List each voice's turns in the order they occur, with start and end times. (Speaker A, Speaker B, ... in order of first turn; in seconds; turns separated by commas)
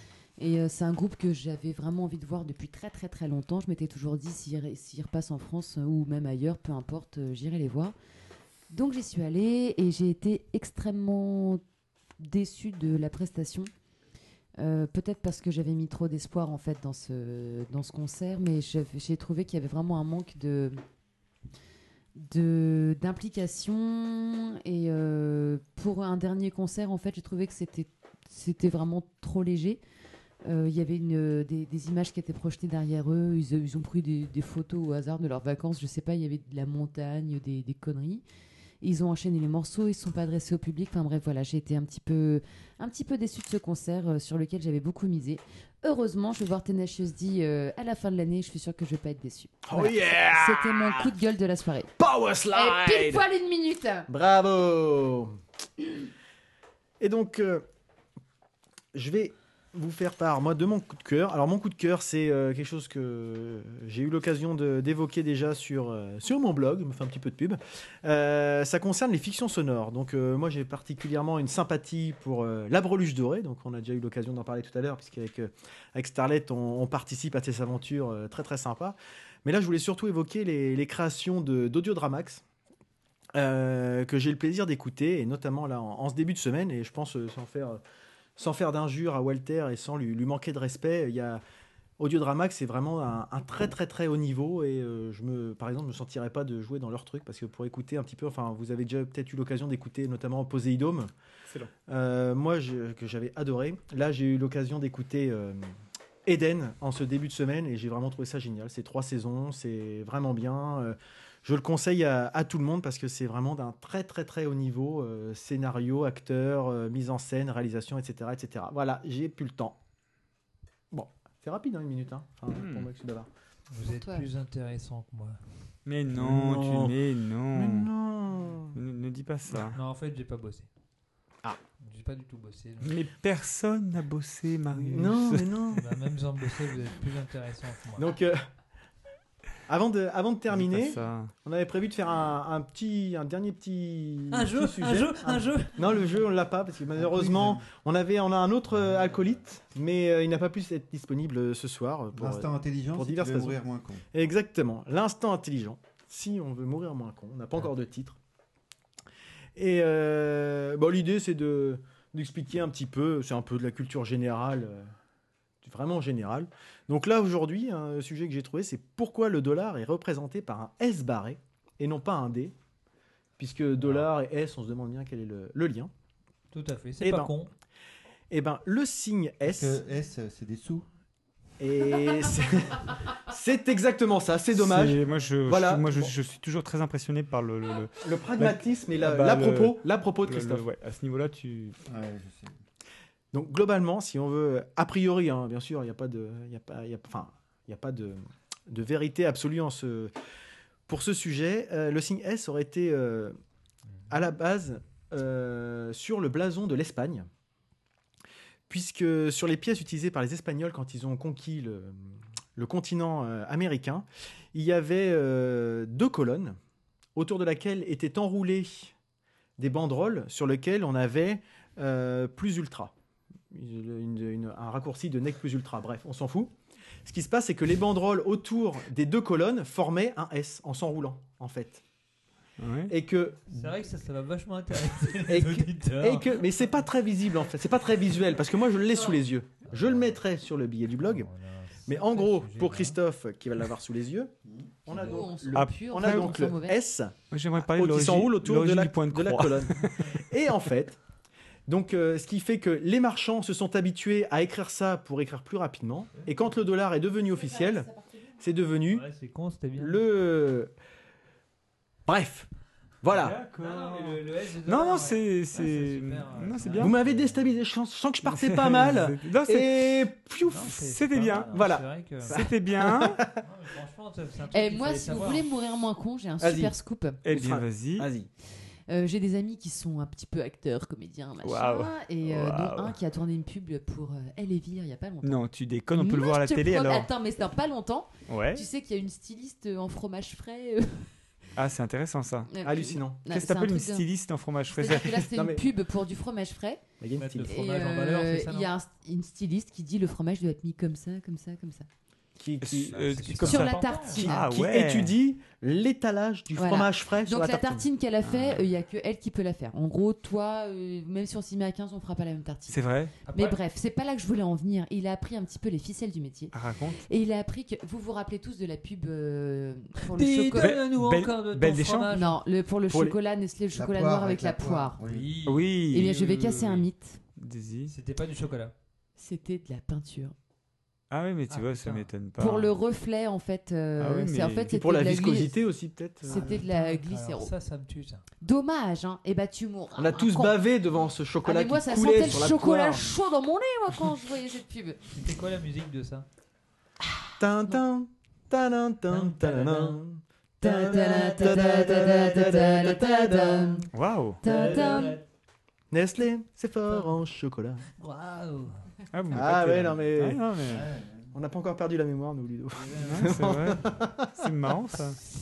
Speaker A: 0.4-7.9, Speaker A: 8.7-11.6, Speaker A: 12.2-13.7, Speaker A: 14.6-20.8, Speaker A: 22.2-29.8, Speaker A: 30.4-38.2, Speaker A: 38.8-51.9, Speaker B: 49.7-51.1, Speaker B: 52.0-53.2, Speaker A: 52.5-54.1, Speaker B: 54.1-55.4, Speaker B: 57.0-57.6, Speaker B: 58.9-82.4, Speaker B: 83.3-87.8, Speaker B: 88.4-91.4, Speaker B: 92.0-101.1, Speaker B: 101.9-105.7, Speaker B: 106.3-119.8, Speaker B: 120.9-123.3, Speaker C: 122.5-122.9, Speaker D: 123.7-125.7, Speaker A: 124.0-124.3, Speaker C: 125.9-127.9, Speaker B: 126.1-127.0, Speaker B: 127.5-128.8, Speaker C: 128.7-129.8, Speaker D: 129.7-130.7, Speaker D: 131.8-133.0, Speaker C: 132.8-135.8, Speaker D: 134.7-135.1, Speaker B: 134.9-135.8, Speaker D: 135.7-138.1, Speaker B: 138.0-138.4, Speaker B: 139.7-153.6, Speaker C: 140.5-141.3, Speaker D: 144.3-146.1, Speaker E: 147.0-147.7, Speaker E: 152.1-154.1, Speaker B: 154.1-158.2, Speaker B: 159.6-164.9, Speaker B: 165.6-172.5, Speaker B: 173.4-175.9, Speaker D: 176.5-177.5, Speaker B: 177.0-177.3, Speaker B: 178.3-179.8, Speaker E: 179.4-180.9, Speaker B: 181.6-186.1, Speaker C: 184.5-191.8, Speaker B: 188.0-190.7, Speaker E: 191.9-192.6, Speaker B: 193.3-200.1, Speaker B: 200.9-203.4, Speaker B: 204.1-207.3, Speaker B: 208.7-216.6, Speaker B: 217.2-218.9, Speaker B: 219.6-222.9, Speaker B: 223.5-226.5, Speaker B: 227.1-231.8, Speaker C: 232.6-232.9, Speaker B: 232.9-233.7, Speaker D: 233.5-236.4, Speaker B: 235.3-241.3, Speaker D: 239.7-240.2, Speaker D: 241.0-243.0, Speaker B: 241.9-244.3, Speaker E: 244.4-244.8, Speaker A: 244.9-246.8, Speaker B: 244.9-251.0, Speaker C: 245.5-246.5, Speaker C: 247.3-250.1, Speaker B: 251.7-259.1, Speaker A: 257.4-258.3, Speaker D: 258.9-260.0, Speaker B: 259.8-260.7, Speaker B: 262.1-262.5, Speaker B: 263.0-263.4, Speaker C: 263.1-267.0, Speaker D: 263.2-267.6, Speaker B: 266.8-270.8, Speaker C: 268.2-270.0, Speaker D: 270.4-272.4, Speaker C: 270.7-271.6, Speaker B: 271.5-273.4, Speaker C: 272.3-273.2, Speaker D: 273.4-275.5, Speaker A: 274.5-277.2, Speaker B: 276.4-276.7, Speaker C: 277.2-278.1, Speaker B: 277.3-278.3, Speaker A: 278.9-285.4, Speaker C: 281.4-283.0, Speaker C: 285.2-287.1, Speaker A: 285.9-291.2, Speaker C: 288.3-288.7, Speaker C: 291.6-292.5, Speaker A: 292.5-294.1, Speaker B: 292.6-293.2, Speaker C: 293.3-295.3, Speaker A: 294.7-296.9, Speaker B: 294.9-295.6, Speaker B: 297.0-297.5, Speaker D: 297.2-298.7, Speaker A: 297.5-301.9, Speaker B: 302.4-303.6, Speaker C: 302.6-305.1, Speaker D: 302.9-304.2, Speaker A: 303.4-304.5, Speaker B: 304.1-307.9, Speaker A: 306.6-320.8, Speaker C: 308.2-308.7, Speaker C: 312.7-313.1, Speaker D: 313.3-313.6, Speaker C: 316.5-317.0, Speaker D: 320.1-322.4, Speaker C: 320.6-322.1, Speaker A: 322.1-325.0, Speaker B: 322.9-323.2, Speaker E: 323.7-325.4, Speaker D: 325.0-325.8, Speaker C: 325.5-327.9, Speaker A: 325.9-327.2, Speaker D: 327.9-328.7, Speaker A: 329.2-330.4, Speaker C: 331.1-332.7, Speaker D: 331.5-332.1, Speaker A: 332.4-335.6, Speaker C: 334.0-334.7, Speaker B: 334.7-336.6, Speaker A: 336.3-337.5, Speaker D: 336.3-338.2, Speaker A: 338.4-340.6, Speaker B: 340.0-343.1, Speaker A: 341.4-345.0, Speaker D: 345.1-346.3, Speaker A: 347.1-347.8, Speaker B: 347.4-353.9, Speaker D: 349.1-350.0, Speaker D: 350.6-352.6, Speaker A: 350.6-353.9, Speaker C: 353.9-354.4, Speaker A: 354.4-355.2, Speaker D: 354.4-355.3, Speaker B: 355.9-357.9, Speaker D: 358.0-358.9, Speaker C: 359.1-360.9, Speaker B: 359.3-360.4, Speaker E: 360.7-361.3, Speaker B: 361.3-364.5, Speaker D: 362.7-363.5, Speaker C: 363.0-365.2